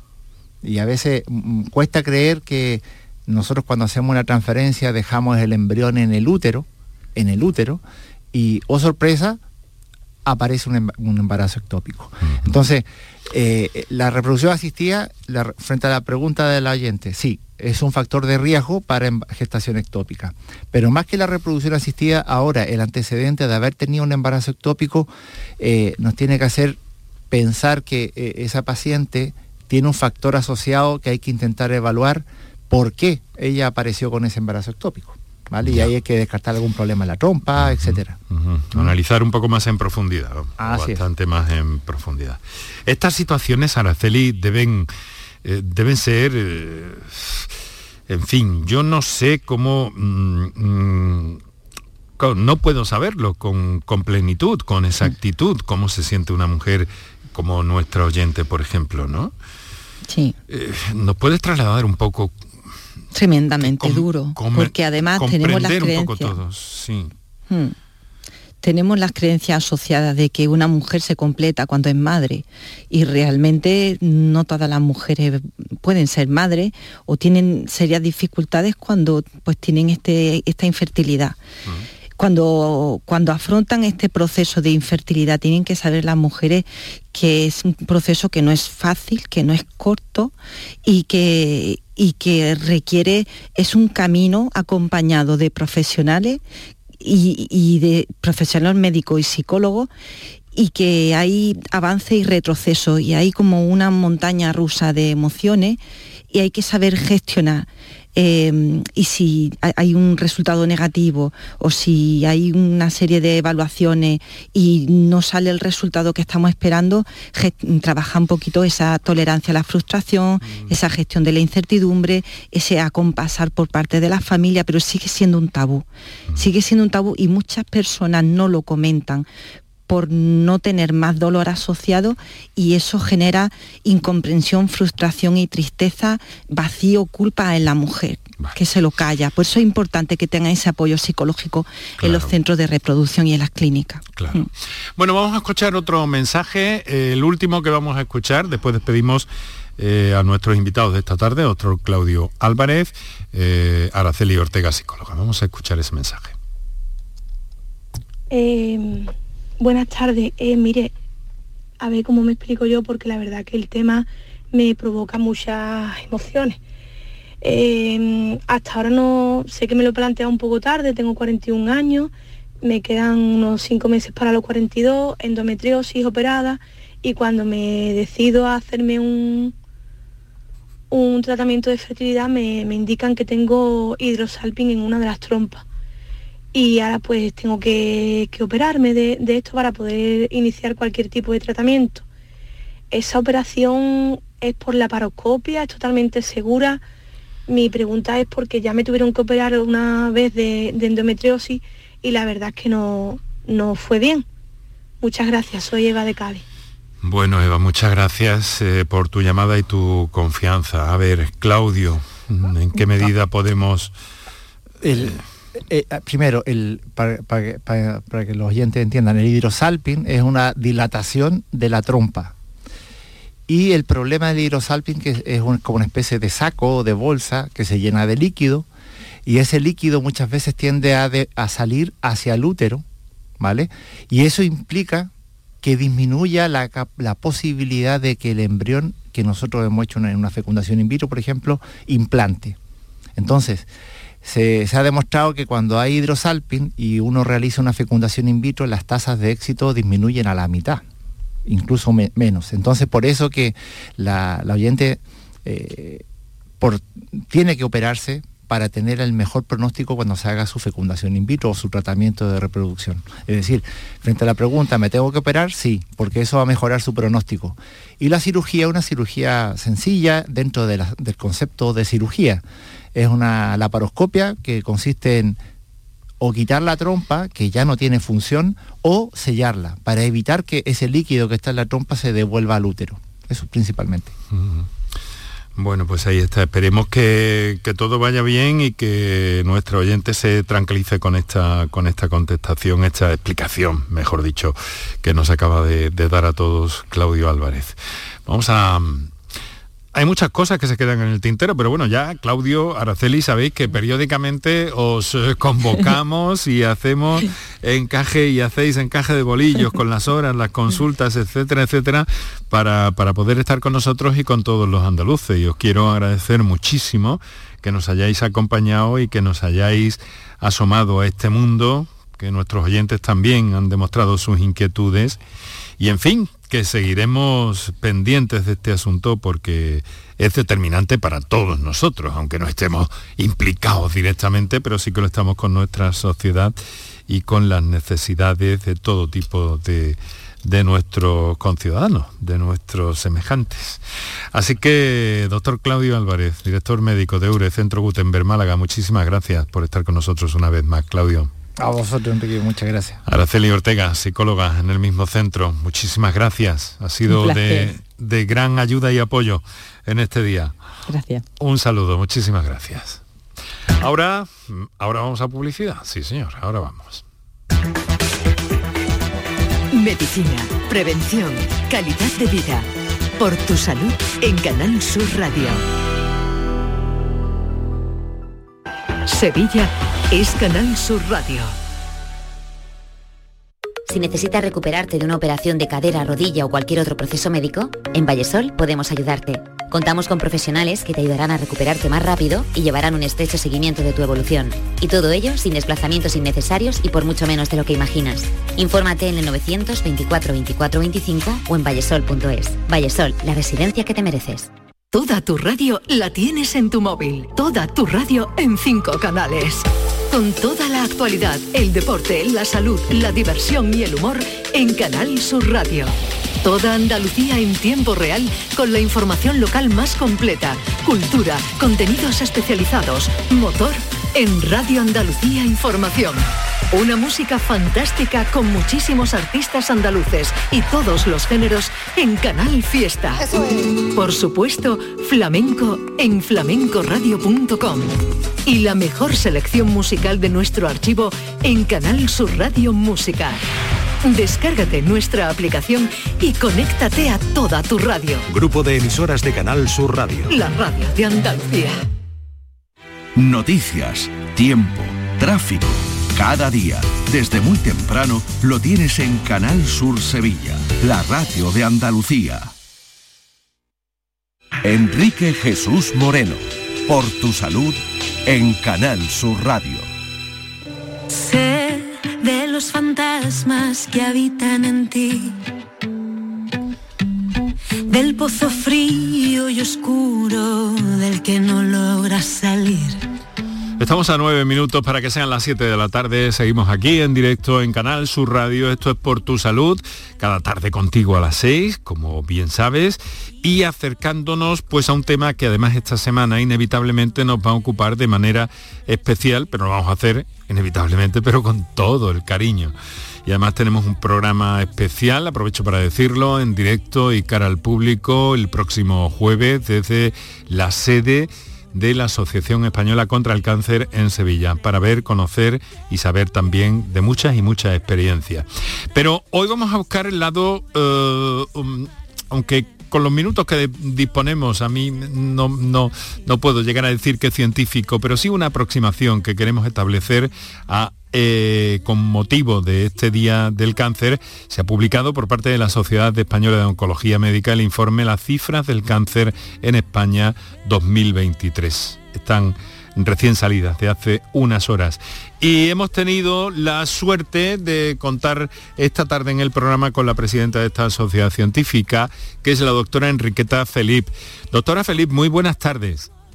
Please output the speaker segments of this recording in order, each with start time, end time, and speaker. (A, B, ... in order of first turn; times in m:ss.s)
0:00.6-0:07.8 A
0:08.3-0:09.4 A
0:10.2-0:26.8 A
0:12.2-0:12.5 B
0:27.3-0:38.2 A
0:35.6-0:35.9 B
0:37.6-0:44.9 B
0:40.6-0:41.1 A
0:45.4-0:47.5 B
0:48.1-0:51.4 B
0:52.2-0:59.3 B
1:00.1-1:00.4 C
1:00.5-1:02.4 B
1:03.1-1:06.4 C
1:03.6-1:07.1 B
1:07.5-1:07.8 C
1:08.6-1:21.4 C
1:22.2-1:30.3 C
1:30.8-1:36.4 C
1:37.0-1:39.9 C
1:40.6-1:45.8 C
1:46.3-2:09.3 C
2:09.9-2:24.4 C
2:22.0-2:22.4 B
2:24.2-2:36.4 B
2:38.3-2:40.9 D
2:41.8-2:46.6 D
2:47.4-2:52.1 D
2:52.6-2:59.5 D
3:00.9-3:05.6 D
3:06.5-3:12.0 D
3:12.9-3:16.8 D
3:17.5-3:24.2 D
3:25.0-3:26.4 D
3:27.0-3:33.9 B
3:34.8-3:42.4 A
3:43.5-3:48.7 A
3:49.3-3:52.8 A
3:53.4-3:55.1 A
3:55.6-4:02.6 A
4:03.2-4:03.7 A
4:04.2-4:10.8 A
4:11.5-4:16.0 A
4:16.6-4:32.4 A
4:33.0-4:35.4 A
4:36.2-4:44.2 A
4:44.3-4:44.7 B
4:45.6-4:59.1 B
4:59.9-5:25.2 B
5:25.8-5:36.6 B
5:37.1-5:51.3 B
5:51.6-5:53.0 A
5:53.0-6:00.6 B
5:57.1-5:57.7 C
6:00.9-6:01.2 C
6:01.4-6:03.0 B
6:03.8-6:07.0 B
6:09.7-6:12.7 E
6:13.2-6:15.6 E
6:19.1-6:21.6 E
6:23.9-6:44.5 F
6:44.9-7:13.2 E
7:13.9-7:17.9 E
7:18.5-7:23.4 E
7:24.0-7:28.2 E
7:28.3-7:30.3 G
7:30.3-7:31.8 E
7:33.2-7:42.5 H
7:44.6-7:49.9 H
7:51.1-7:55.4 I
7:57.9-8:03.0 I
8:03.8-9:16.1 B